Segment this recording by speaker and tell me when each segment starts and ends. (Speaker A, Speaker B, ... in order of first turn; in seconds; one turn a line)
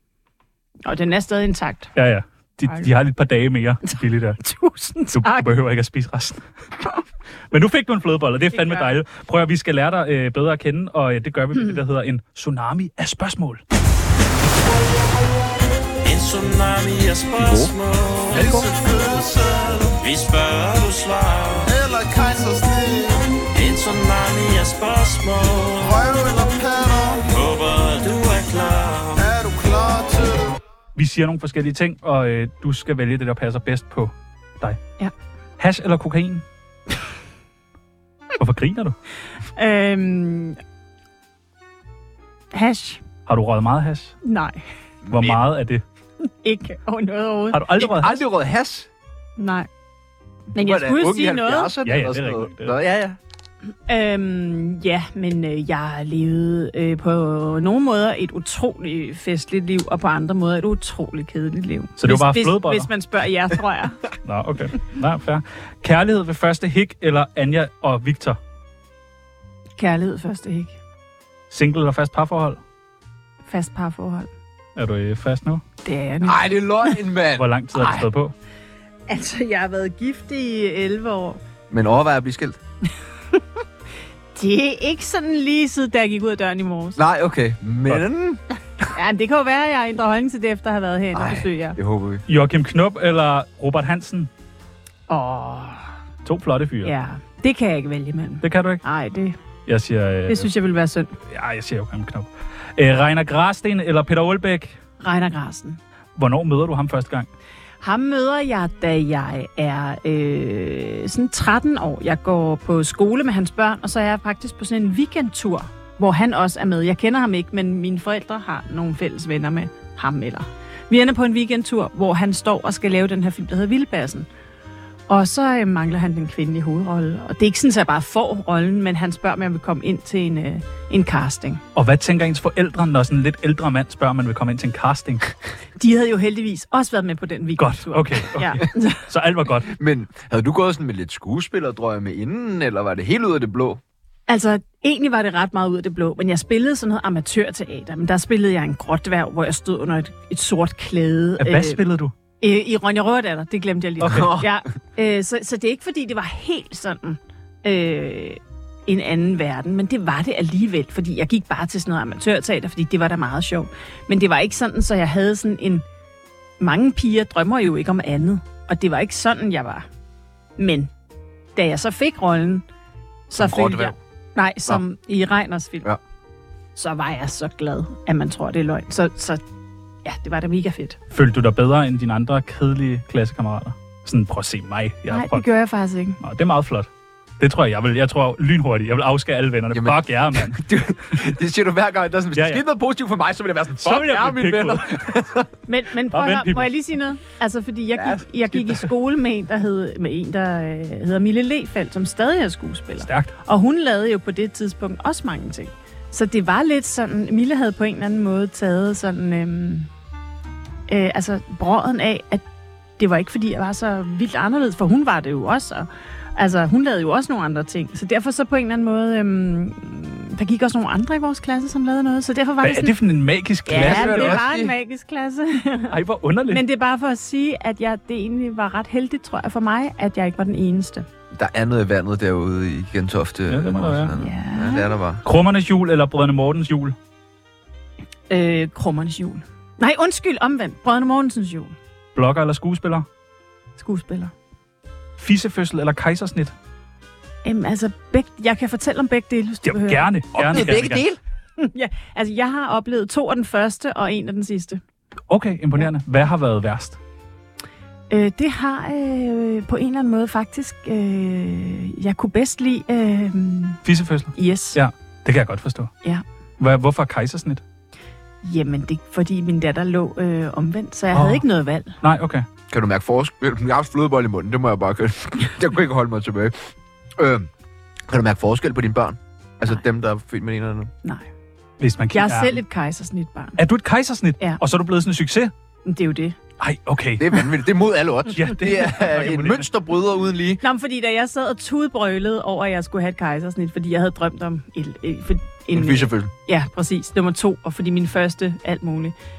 Speaker A: 0.8-1.9
Speaker B: 1.9-4.4
Speaker A: 2.6-2.9
Speaker A: 3.9-5.5
Speaker B: 5.1-6.5
Speaker B: 7.5-13.6
Speaker A: 8.5-8.9
Speaker C: 16.0-19.3
Speaker D: 17.4-17.7
Speaker E: 18.4-20.0
Speaker C: 20.0-21.7
Speaker E: 21.7-23.4
Speaker C: 23.5-26.0
Speaker E: 25.8-27.3
Speaker C: 27.3-29.3
Speaker E: 29.1-30.6
Speaker B: 30.9-34.8
Speaker B: 35.6-36.4
Speaker B: 38.4-39.0
Speaker A: 39.5-40.6
Speaker A: 42.5-43.0
Speaker B: 43.2-44.1
Speaker A: 44.2-44.6
Speaker D: 45.0-45.4
Speaker B: 45.1-45.8
Speaker A: 46.4-47.8
Speaker B: 47.5-48.2
Speaker D: 47.8-48.9
Speaker A: 49.4-49.7
Speaker A: 50.5-51.7
Speaker D: 50.5-53.2
Speaker B: 51.8-52.8
Speaker A: 53.9-64.0
Speaker B: 62.0-62.9
Speaker B: 64.2-68.4
Speaker A: 69.8-70.8
Speaker B: 71.5-72.6
Speaker A: 73.4-74.3
Speaker B: 74.8-75.6
Speaker A: 75.8-76.9
Speaker D: 76.2-78.0
Speaker B: 77.3-78.3
Speaker A: 79.1-81.4
Speaker D: 81.7-82.6
Speaker A: 84.3-87.0
Speaker D: 87.0-88.8
Speaker A: 88.9-91.8
Speaker D: 91.1-92.2
Speaker B: 92.3-94.3
Speaker A: 95.1-95.9
Speaker B: 96.2-96.9
Speaker A: 96.8-99.4
Speaker B: 98.4-98.8
Speaker B: 99.7-100.5
Speaker A: 100.3-101.1
Speaker B: 101.3-104.8
Speaker A: 105.0-105.8
Speaker B: 106.2-107.3
Speaker A: 107.8-124.3
Speaker A: 125.1-131.6
Speaker B: 131.7-135.3
Speaker A: 135.8-139.1
Speaker B: 137.6-139.7
Speaker D: 139.7-143.8
Speaker A: 144.3-151.8
Speaker B: 151.4-152.1
Speaker A: 152.4-165.8
Speaker B: 154.0-154.3
Speaker D: 154.0-154.5
Speaker A: 166.6-169.8
Speaker A: 170.6-170.9
Speaker A: 171.6-172.6
Speaker A: 173.3-175.9
Speaker D: 173.3-173.9
Speaker A: 176.8-179.4
Speaker A: 180.0-181.0
Speaker B: 181.1-185.5
Speaker A: 185.1-186.2
Speaker B: 186.2-186.9
Speaker B: 187.4-190.6
Speaker D: 189.7-195.5
Speaker B: 192.3-192.6
Speaker B: 193.8-194.9
Speaker A: 195.7-209.9
Speaker B: 196.1-196.7
Speaker D: 198.0-198.2
Speaker B: 203.0-203.3
Speaker A: 210.9-212.4
Speaker A: 213.0-222.9
Speaker B: 222.6-224.4
Speaker D: 223.7-224.7
Speaker A: 223.7-225.9
Speaker B: 225.9-226.6
Speaker A: 226.5-231.1
Speaker D: 231.3-235.2
Speaker B: 233.5-234.1
Speaker A: 234.2-234.9
Speaker B: 235.2-236.9
Speaker A: 238.3-241.7
Speaker B: 242.1-243.1
Speaker A: 243.8-244.3
Speaker B: 245.2-246.5
Speaker A: 247.4-250.1
Speaker B: 249.6-251.0
Speaker D: 250.3-251.2
Speaker A: 251.6-254.8
Speaker B: 255.3-257.0
Speaker A: 258.1-263.8
Speaker B: 263.8-265.9
Speaker A: 264.4-264.8
Speaker B: 266.6-267.6
Speaker A: 268.4-271.9
Speaker B: 271.1-271.4
Speaker B: 272.0-272.4
Speaker D: 272.7-277.5
Speaker D: 278.1-280.9
Speaker B: 281.8-282.6
Speaker A: 282.1-283.6
Speaker B: 283.6-285.5
Speaker A: 285.9-286.4
Speaker B: 286.6-287.3
Speaker D: 287.2-290.6
Speaker B: 288.3-289.7
Speaker A: 290.6-299.1
Speaker D: 295.7-296.3